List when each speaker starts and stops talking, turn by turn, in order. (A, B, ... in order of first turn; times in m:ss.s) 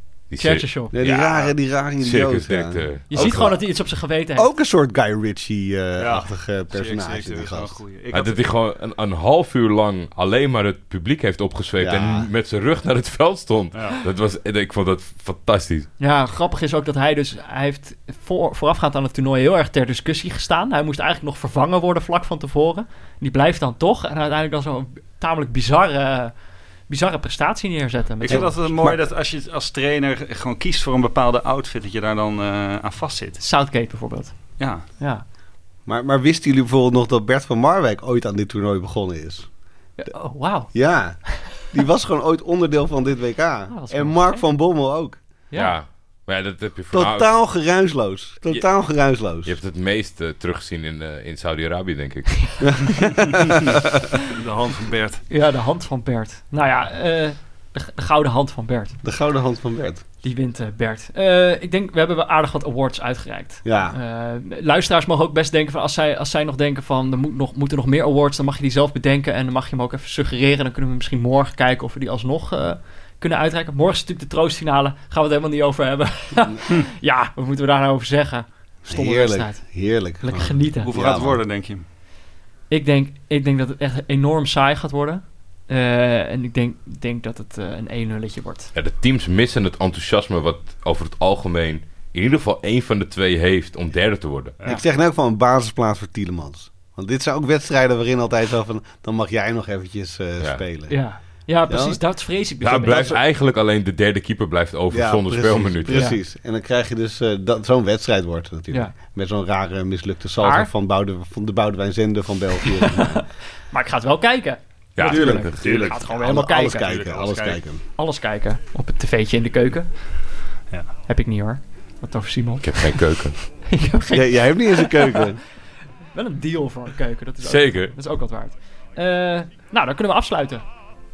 0:00.3-0:03.3 A
0:00.4-0:00.9 B
0:00.9-0:03.6 C
0:03.1-0:04.5 B
0:04.4-0:07.8 C
0:06.0-0:08.5 D
0:08.1-0:15.9 A
0:11.8-0:12.3 C
0:13.7-0:14.0 D
0:16.0-0:26.3 B
0:26.9-0:28.6 B
0:28.2-0:33.4 D
0:28.3-0:29.0 C
0:33.4-0:35.2 B
0:34.6-0:34.8 D
0:35.8-0:39.5 C
0:40.0-0:40.7 B
0:40.7-0:45.2 C
0:43.7-0:44.4 B
0:45.5-0:45.8 B
0:45.5-0:47.3 A
0:46.9-0:49.6 C
0:49.4-0:53.0 A
0:52.6-0:53.8 C
0:54.2-0:55.2 D
0:55.3-0:59.0 B
0:59.0-1:00.0 C
1:00.2-1:19.7 B
1:03.6-1:04.0 C
1:18.8-1:21.4 C
1:20.2-1:20.9 B
1:20.8-1:21.8 D
1:22.7-1:28.7 B
1:28.7-1:34.6 A
1:34.6-1:41.0 C
1:40.9-1:43.2 B
1:41.7-1:42.0 C
1:42.6-1:46.1 A
1:44.9-1:53.2 C
1:45.9-1:46.2 B
1:50.4-1:50.7 B
1:52.8-1:56.9 B
1:55.0-1:55.8 A
1:55.0-1:57.8 C
1:55.6-1:57.6 D
1:58.0-1:59.9 B
2:01.1-2:03.1 B
2:02.6-2:03.4 A
2:03.6-2:05.3 B
2:04.1-2:05.4 C
2:06.1-2:10.6 B
2:07.4-2:07.9 A